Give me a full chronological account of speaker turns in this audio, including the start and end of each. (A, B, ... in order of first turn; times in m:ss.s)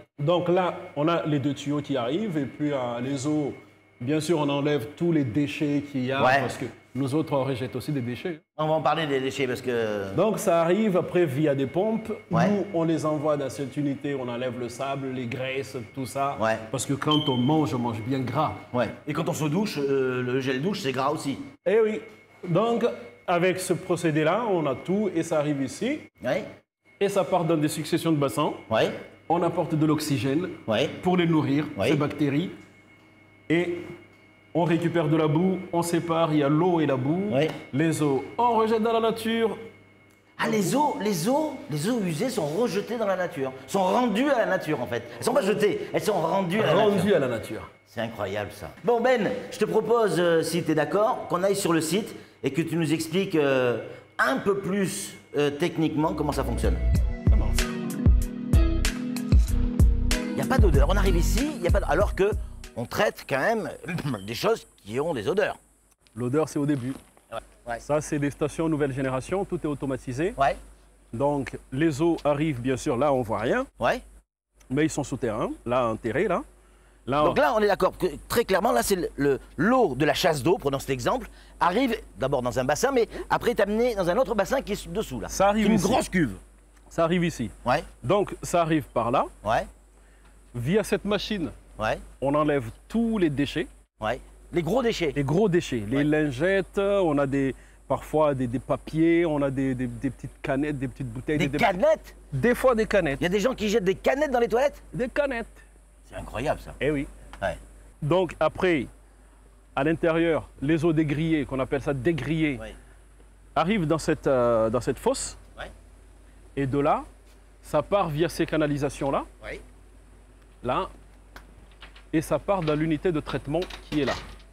0:00.2-0:08.4 A
0:06.2-0:06.6 B
0:08.6-0:10.2 B
0:10.1-0:18.6 A
0:12.3-0:12.6 B
0:16.4-0:16.6 B
0:18.7-0:21.4 B
0:21.6-0:26.1 A
0:26.2-0:26.5 B
0:27.0-0:28.6 A
0:28.7-0:28.9 B
0:29.3-0:32.5 A
0:30.7-0:31.0 B
0:31.8-0:32.0 B
0:33.5-0:33.8 A
0:34.5-0:39.6 A
0:37.3-0:37.5 B
0:40.4-0:47.1 B
0:40.4-0:40.8 A
0:46.6-0:47.7 A
0:47.9-0:56.8 B
0:57.3-0:57.6 A
1:00.3-1:05.6 B
1:06.1-1:07.0 A
1:07.3-1:07.8 B
1:07.8-1:10.4 A
1:11.1-1:13.7 A
1:14.7-1:16.4 A
1:17.0-1:17.4 A
1:17.2-1:26.4 B
1:25.3-1:26.0 A
1:26.9-1:29.3 A
1:29.4-1:29.7 B
1:30.5-1:31.5 A
1:31.8-1:32.0 B
1:32.2-1:33.7 A
1:34.0-1:35.2 B
1:35.1-1:41.8 A
1:41.3-1:42.1 B
1:42.3-1:43.2 A
1:43.2-1:44.8 B
1:44.9-1:45.6 A
1:46.1-1:46.8 B
1:46.8-1:47.1 A
1:48.0-1:48.9 A
1:49.8-1:52.6 A
1:53.5-1:55.4 A
1:56.6-1:57.0 A
1:57.6-1:59.2 A
2:00.6-2:00.9 A
2:02.1-2:04.2 A